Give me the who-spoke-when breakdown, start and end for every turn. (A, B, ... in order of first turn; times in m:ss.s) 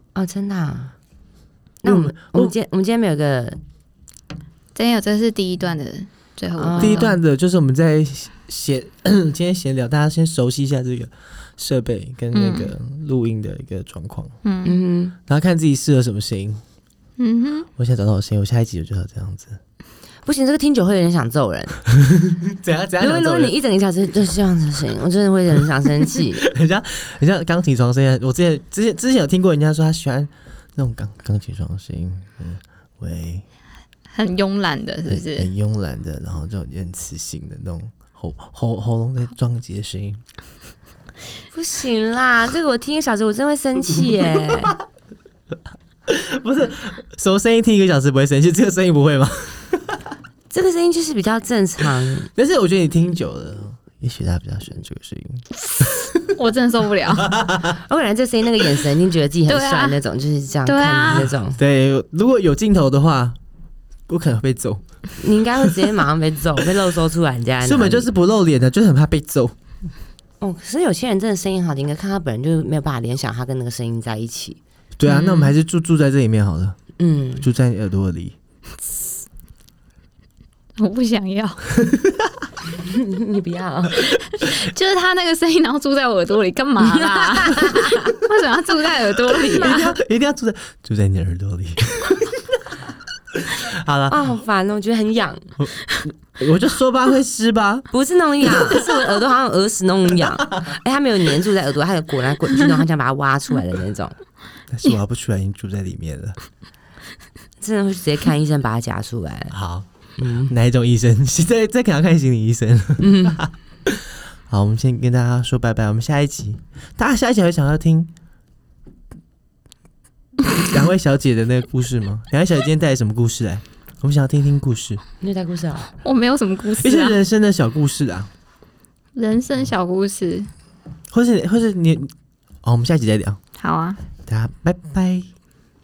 0:00.1-0:00.9 A
0:01.8-0:03.6 A
0:01.8-0:02.5 B
0:04.7-0:07.1 C
0:06.6-0:07.2 A
0:06.8-0:14.3 B
0:12.3-0:12.7 C
0:14.4-0:14.8 C
0:14.6-0:15.2 A
0:15.3-0:16.6 B
0:17.2-0:17.7 C
0:17.8-0:19.6 B
0:20.2-0:21.8 A
0:22.1-0:23.5 B
0:23.0-0:26.4 A
0:26.4-0:33.4 B
0:34.1-0:35.5 C
0:35.1-0:40.2 B
0:41.5-0:44.7 A
0:46.1-0:49.8 B
0:50.5-0:52.3 A
0:52.4-0:56.3 B
0:56.0-0:57.3 C
0:57.2-0:57.8 B
0:57.8-1:01.6 A
0:59.5-1:00.0 C
1:00.6-1:01.3 C
1:01.6-1:03.4 B
1:04.1-1:04.8 B
1:05.2-1:08.1 A
1:07.6-1:09.5 B
1:10.4-1:14.6 A
1:15.0-1:16.8 B
1:15.1-1:15.5 C
1:17.0-1:17.4 A
1:17.4-1:18.3 B
1:20.8-1:21.6 C
1:22.7-1:24.1 A
1:24.1-1:29.9 C
1:26.8-1:28.1 A
1:29.5-1:32.4 B
1:29.5-1:29.7 A
1:33.4-1:34.2 B
1:34.1-1:35.5 A
1:35.6-1:37.8 B
1:37.9-1:44.1 A
1:38.4-1:38.8 B
1:44.7-1:46.4 B
1:47.6-1:49.5 A
1:49.5-1:49.8 B
1:50.2-1:50.5 A
1:50.4-1:58.1 B
1:53.0-1:53.4 A
2:00.6-2:05.0 B
2:05.2-2:05.9 A
2:06.0-2:07.2 C
2:06.8-2:08.3 B
2:09.1-2:10.5 C
2:11.1-2:12.1 B
2:12.6-2:13.4 B
2:13.6-2:14.0 C
2:14.3-2:15.3 B